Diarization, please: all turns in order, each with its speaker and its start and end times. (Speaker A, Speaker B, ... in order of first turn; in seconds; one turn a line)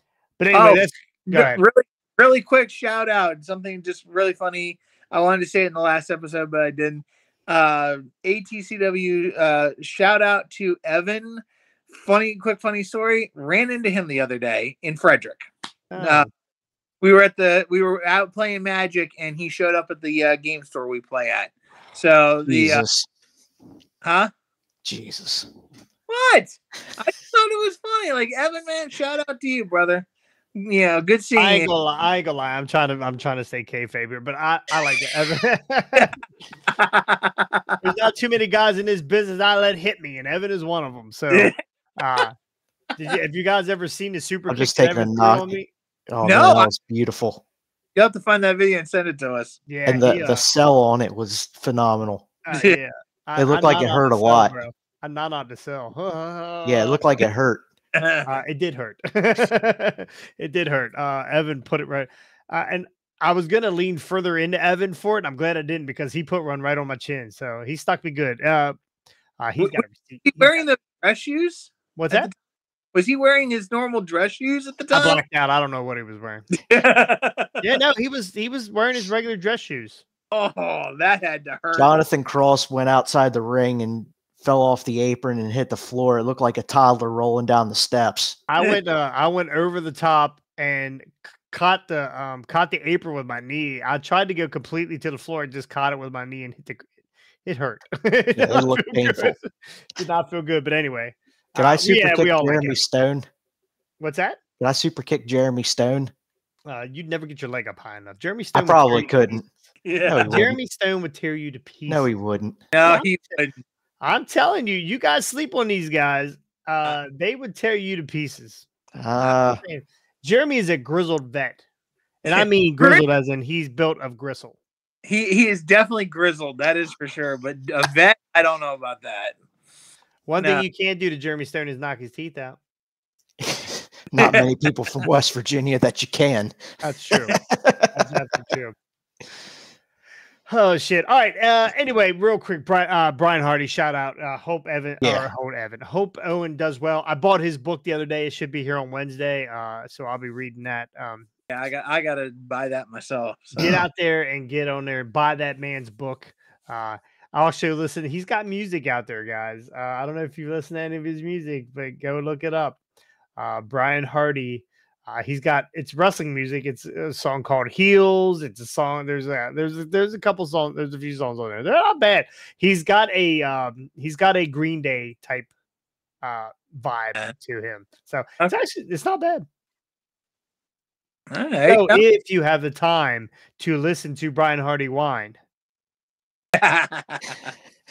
Speaker A: 0.4-1.6
Speaker B: 0.5-15.4
Speaker A: 15.9-16.3
Speaker B: 16.0-16.3
Speaker B: 17.0-22.8
Speaker C: 22.5-23.1
Speaker B: 24.0-24.3
Speaker C: 24.8-25.5
Speaker B: 26.1-31.7
Speaker A: 31.4-36.2
Speaker B: 36.8-37.8
Speaker A: 37.8-42.3
Speaker A: 43.0-45.7
Speaker C: 44.5-45.5
Speaker C: 46.1-47.4
Speaker B: 46.2-46.7
Speaker B: 48.0-49.6
Speaker A: 49.7-50.4
Speaker C: 49.9-52.3
Speaker A: 52.5-57.0
Speaker C: 53.4-54.5
Speaker C: 56.6-57.6
Speaker B: 58.0-58.3
Speaker A: 58.2-68.8
Speaker A: 69.4-70.5
Speaker B: 69.6-72.3
Speaker A: 72.0-72.3
Speaker B: 72.9-75.2
Speaker A: 74.9-76.5
Speaker B: 76.6-77.5
Speaker A: 77.6-80.0
Speaker B: 80.3-81.9
Speaker C: 81.7-88.4
Speaker A: 88.5-96.9
Speaker A: 97.5-102.8
Speaker C: 98.4-99.3
Speaker C: 101.5-103.3
Speaker A: 104.0-104.4
Speaker C: 104.6-106.1
Speaker A: 106.7-109.3
Speaker C: 108.5-109.5
Speaker B: 109.8-110.4
Speaker C: 110.0-110.6
Speaker A: 110.2-112.1
Speaker C: 111.9-112.6
Speaker B: 112.7-113.5
Speaker A: 114.0-118.7
Speaker C: 119.0-119.6
Speaker A: 119.2-121.6
Speaker A: 122.2-124.5
Speaker B: 122.3-123.0
Speaker B: 125.0-129.3
Speaker A: 130.3-132.6
Speaker C: 133.4-136.6
Speaker B: 134.2-134.4
Speaker A: 136.8-137.4
Speaker C: 137.3-137.9
Speaker A: 137.9-138.8
Speaker A: 140.5-151.3
Speaker C: 145.0-145.3
Speaker B: 151.5-153.8
Speaker A: 153.6-162.8
Speaker A: 163.4-175.5
Speaker A: 176.2-179.5
Speaker B: 181.3-182.0
Speaker A: 181.7-185.4
Speaker B: 186.6-187.5